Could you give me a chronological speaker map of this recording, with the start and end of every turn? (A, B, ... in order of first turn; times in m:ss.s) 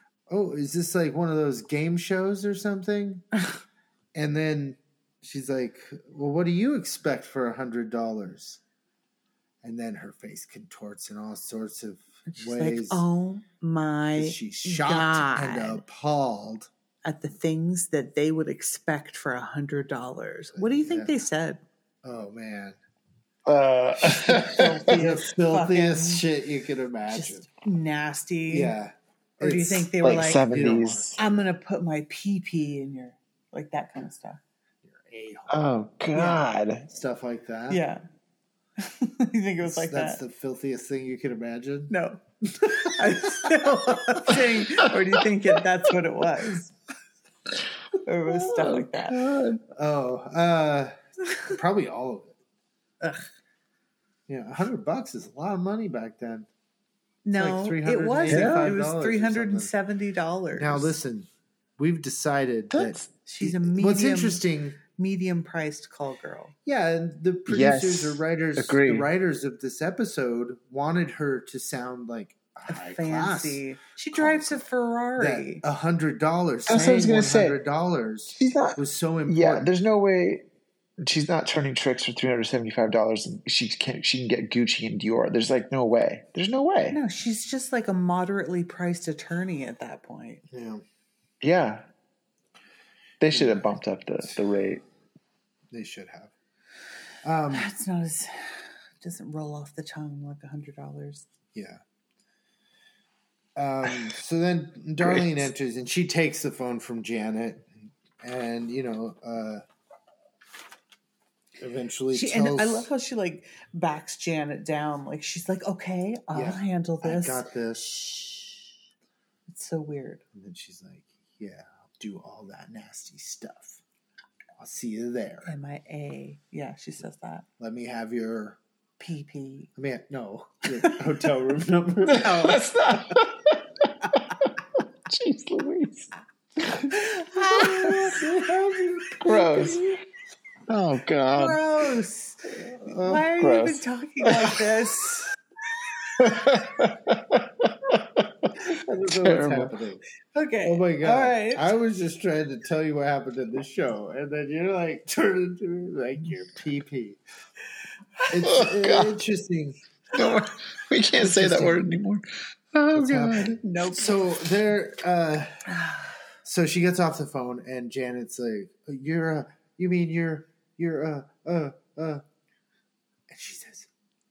0:00.3-0:03.2 A
0:04.1-0:08.6 A
0:09.6-0:13.0 A
0:12.3-0:15.8 B
0:14.1-0:16.7 A
0:17.0-0:21.6 B
0:20.6-0:21.1 A
0:22.0-0:22.8 A
0:23.4-0:24.7 C
0:24.0-0:27.4 A
0:24.4-0:26.2 B
0:27.1-0:28.8 B
0:28.5-0:29.9 A
0:29.4-0:30.5 B
0:30.0-0:31.2 C
0:30.5-0:31.2 A
0:31.2-0:34.4 B
0:34.8-0:35.6 A
0:35.5-0:36.8 C
0:36.1-0:36.4 B
0:36.9-0:37.8 A
0:37.7-0:38.0 B
0:38.8-0:40.2 B
0:39.6-0:41.9 A
0:41.9-0:46.7 B
0:42.7-0:43.7 A
0:48.0-0:49.2 B
0:48.2-0:49.6 C
0:49.7-0:52.4 A
0:53.0-0:53.2 B
0:54.3-0:56.5 A
0:57.2-1:01.0 B
0:57.3-0:59.7 A
0:58.3-0:58.7 C
1:00.5-1:04.8 A
1:02.7-1:03.1 C
1:03.2-1:04.4 B
1:04.9-1:06.5 B
1:06.6-1:14.6 A
1:07.5-1:09.1 C
1:12.7-1:15.6 B
1:15.2-1:19.7 A
1:16.7-1:17.6 C
1:18.4-1:20.4 C
1:21.0-1:27.0 C
1:26.9-1:30.4 B
1:30.5-1:30.8 A
1:31.4-1:31.8 C
1:33.2-1:34.8 C
1:33.3-1:33.7 A
1:35.7-1:36.3 A
1:37.2-1:37.7 A
1:37.5-1:41.2 B
1:41.5-1:41.8 A
1:43.6-1:49.6 A
1:45.0-1:45.4 C
1:51.6-1:52.9 A
1:52.1-1:58.7 B
1:56.3-1:57.9 A
1:59.5-2:00.2 B
2:00.3-2:03.8 A
2:04.6-2:05.5 A
2:05.4-2:07.4 B
2:07.6-2:08.6 A
2:09.0-2:09.7 B
2:09.8-2:12.6 A
2:12.1-2:18.2 C
2:12.2-2:12.6 B
2:16.7-2:18.3 B
2:17.5-2:19.9 A
2:19.2-2:19.8 C
2:20.7-2:21.6 C
2:21.3-2:25.2 B
2:22.7-2:23.3 A
2:23.4-2:24.6 C
2:26.2-2:29.7 C
2:28.7-2:30.0 A
2:30.3-2:31.7 B
2:30.6-2:37.2 A
2:38.3-2:39.8 A
2:38.4-2:39.2 C
2:40.1-2:43.6 C
2:41.2-2:41.8 A
2:42.9-2:45.6 A
2:43.6-2:44.2 B
2:45.7-2:46.1 B
2:46.4-2:52.2 A
2:53.3-2:53.9 A